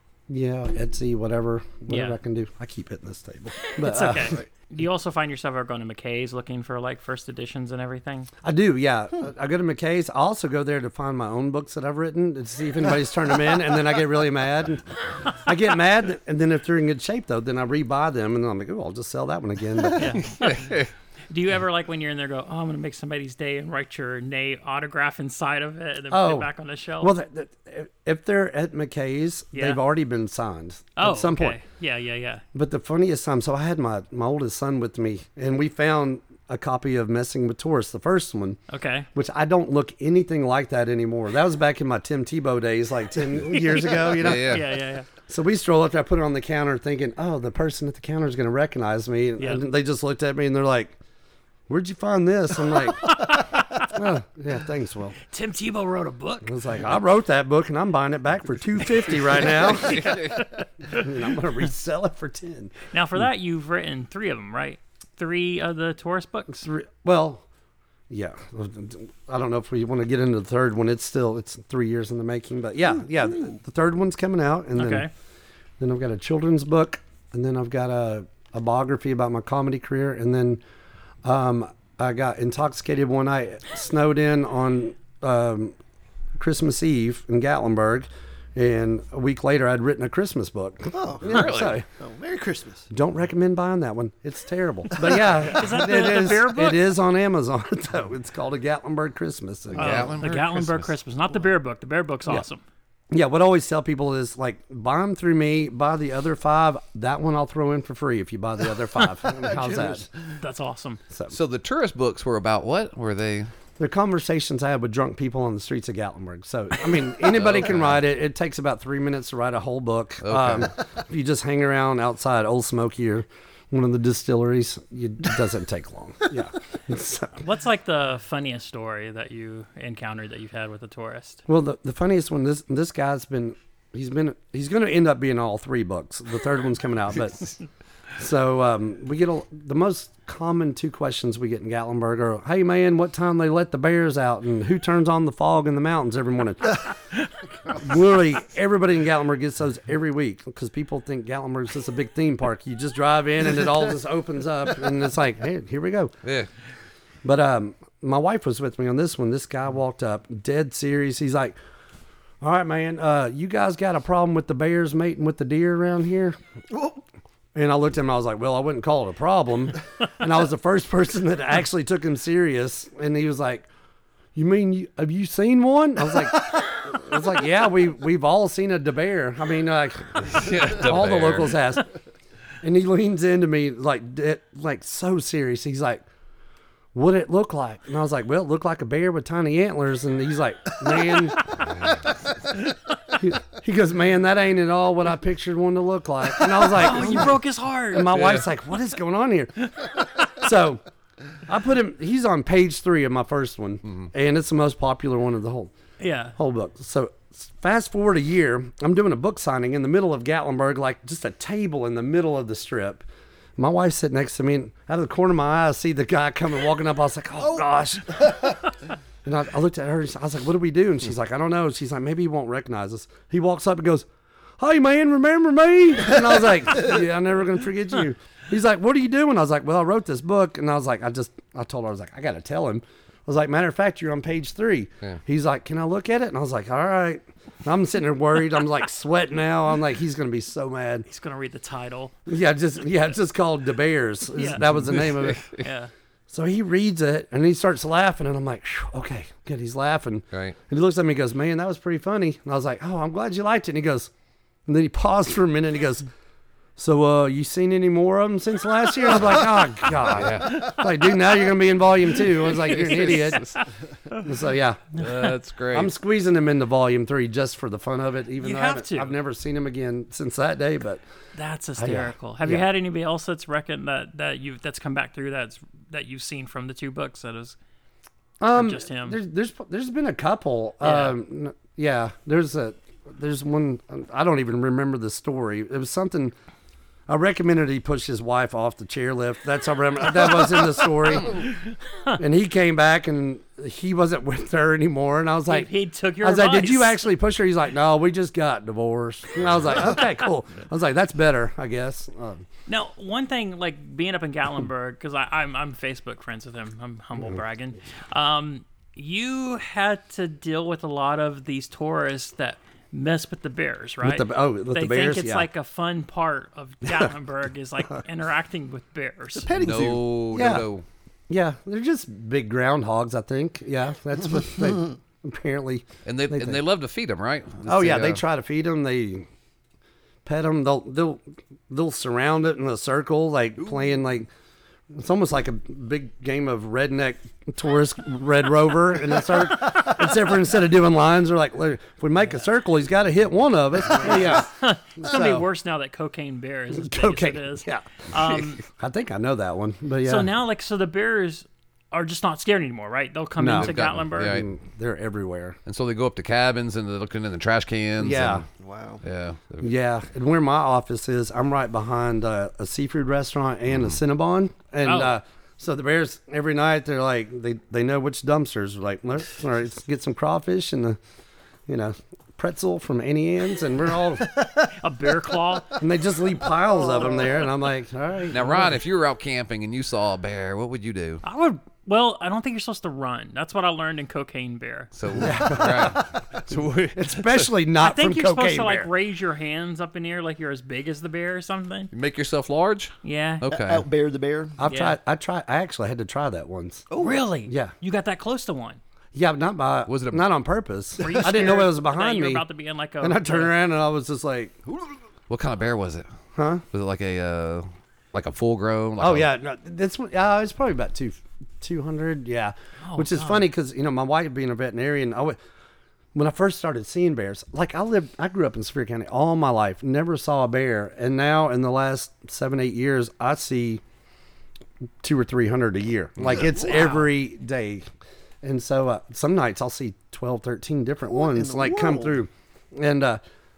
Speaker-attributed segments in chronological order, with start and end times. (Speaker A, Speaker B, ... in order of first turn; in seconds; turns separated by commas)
Speaker A: 0.3-4.4, Speaker B: 1.9-2.2, Speaker B: 3.7-8.3, Speaker A: 8.4-20.2, Speaker B: 20.0-20.8, Speaker C: 20.2-20.9, Speaker B: 21.3-27.1, Speaker A: 26.1-26.5, Speaker A: 27.0-31.6, Speaker B: 29.5-29.8, Speaker B: 31.0-32.4, Speaker A: 32.5-38.6, Speaker B: 38.7-39.1, Speaker A: 39.1-44.6, Speaker B: 43.5-45.1, Speaker C: 44.2-44.7, Speaker A: 45.3-51.0, Speaker A: 51.7-55.2, Speaker B: 53.0-53.9, Speaker B: 55.3-56.5, Speaker A: 56.4-60.3, Speaker B: 59.7-61.0, Speaker C: 59.9-60.3, Speaker A: 60.9-62.7, Speaker B: 62.9-66.7, Speaker A: 66.6-67.4, Speaker A: 68.1-75.1, Speaker B: 74.8-75.1, Speaker A: 75.8-80.6, Speaker A: 81.2-85.8, Speaker A: 86.4-91.9, Speaker D: 90.9-92.9, Speaker C: 91.3-91.8, Speaker A: 92.9-100.0, Speaker B: 95.5-96.9, Speaker C: 99.8-100.9, Speaker B: 99.8-102.6, Speaker A: 103.1-110.1, Speaker D: 109.3-110.1, Speaker B: 110.4-111.0, Speaker A: 111.1-111.3, Speaker C: 111.3-113.5, Speaker A: 113.8-127.4, Speaker C: 117.3-118.0, Speaker C: 120.2-120.7, Speaker B: 127.4-131.4, Speaker A: 131.5-137.5, Speaker A: 138.2-146.9, Speaker A: 147.7-156.1, Speaker A: 157.2-161.6, Speaker A: 162.4-166.4, Speaker D: 166.7-167.0, Speaker A: 167.5-173.7, Speaker A: 174.3-181.9, Speaker C: 180.3-181.6, Speaker A: 182.6-186.0, Speaker A: 186.9-191.6, Speaker C: 191.7-192.0, Speaker A: 193.2-200.8, Speaker B: 196.7-198.2, Speaker C: 198.1-198.4, Speaker A: 201.5-205.7, Speaker B: 206.0-206.4, Speaker A: 206.4-213.1, Speaker A: 213.6-218.6, Speaker A: 219.2-224.1, Speaker A: 224.6-241.1, Speaker B: 241.1-242.2, Speaker A: 242.3-245.5, Speaker B: 244.3-245.9, Speaker C: 244.7-245.6, Speaker A: 246.3-254.1, Speaker A: 254.7-256.1, Speaker A: 256.8-263.6, Speaker C: 260.1-260.7, Speaker B: 262.4-264.2, Speaker C: 262.8-263.5, Speaker A: 264.1-265.1, Speaker C: 265.0-265.9, Speaker A: 265.7-271.0, Speaker B: 268.4-269.1, Speaker B: 271.4-277.6, Speaker A: 271.8-272.7, Speaker A: 278.4-286.3, Speaker B: 278.5-279.2, Speaker B: 280.8-281.2, Speaker A: 287.1-291.4, Speaker B: 291.3-292.2, Speaker A: 292.2-302.4, Speaker B: 295.5-297.1, Speaker B: 302.7-319.6, Speaker A: 314.0-315.5, Speaker A: 316.9-317.1, Speaker D: 319.4-320.1, Speaker C: 319.5-320.9, Speaker A: 320.3-320.7, Speaker A: 321.3-326.6, Speaker C: 326.1-328.2, Speaker A: 327.7-329.3, Speaker A: 330.2-334.3, Speaker A: 334.9-345.5, Speaker B: 344.0-348.6, Speaker A: 346.7-350.3, Speaker B: 350.0-354.4, Speaker A: 353.4-355.6, Speaker C: 353.5-354.5, Speaker C: 355.7-358.4, Speaker A: 358.0-358.5, Speaker D: 358.6-359.0, Speaker C: 359.0-359.7, Speaker A: 359.6-371.0, Speaker C: 363.7-364.0, Speaker B: 364.8-365.2, Speaker A: 371.7-374.3, Speaker B: 374.8-375.8, Speaker A: 375.8-378.8, Speaker D: 376.9-377.4, Speaker C: 378.3-381.2, Speaker B: 381.2-384.9, Speaker C: 384.9-387.5, Speaker A: 385.2-386.1, Speaker A: 386.9-388.9, Speaker B: 387.8-391.9, Speaker C: 391.9-393.9, Speaker B: 393.0-393.4, Speaker D: 393.5-394.6, Speaker A: 394.6-396.9, Speaker B: 394.7-395.0, Speaker D: 396.9-397.3, Speaker B: 397.0-398.8, Speaker A: 397.5-397.7, Speaker A: 399.1-402.4, Speaker C: 399.9-400.3, Speaker B: 401.0-403.6, Speaker D: 401.1-401.6, Speaker A: 403.0-404.6, Speaker D: 404.7-404.9, Speaker C: 405.3-406.1, Speaker A: 406.4-406.6, Speaker C: 406.7-409.3, Speaker A: 409.0-415.4, Speaker B: 412.8-413.4, Speaker A: 416.1-423.8, Speaker A: 425.0-427.9, Speaker B: 426.5-427.1, Speaker A: 428.4-433.2, Speaker D: 431.1-432.2